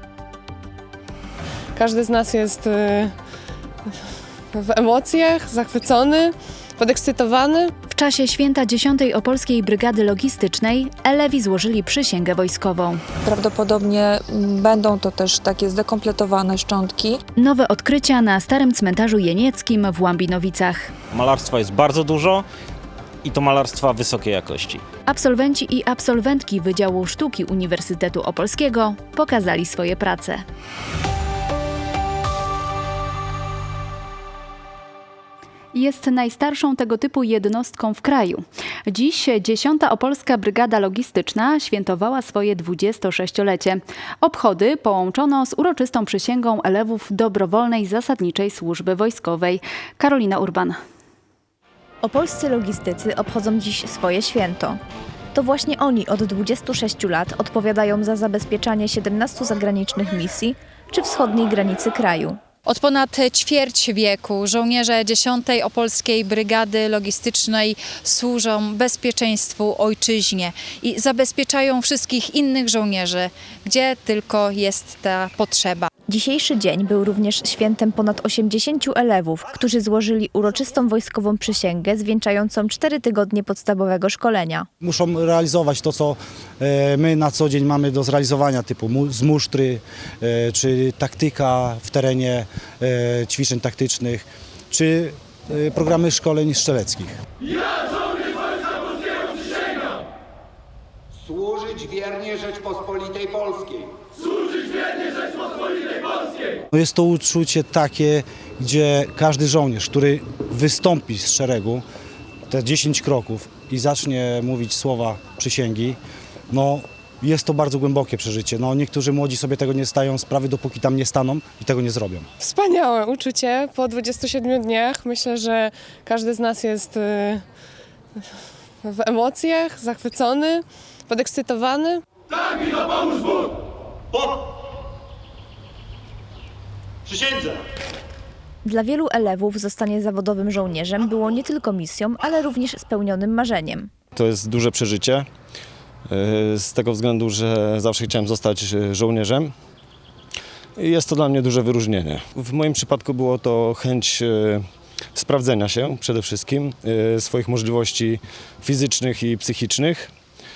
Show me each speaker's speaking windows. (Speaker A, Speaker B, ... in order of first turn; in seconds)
Speaker A: 1.8-3.1, 4.5-7.7, 122.4-127.4, 128.8-132.0
Speaker B: 7.9-13.0, 17.4-20.9, 25.1-30.4, 35.7-50.8
Speaker C: 13.2-17.2
Speaker D: 21.1-22.4, 23.2-24.8
Speaker E: 52.0-54.8, 55.3-62.4, 76.1-84.7, 138.7-143.9
Speaker F: 62.7-75.9
Speaker G: 84.8-97.1, 106.7-111.8, 112.5-116.0, 116.5-122.2
Speaker H: 110.4-111.7, 115.4-115.9, 144.2-145.2, 146.1-149.5, 150.8-154.6, 155.2-160.1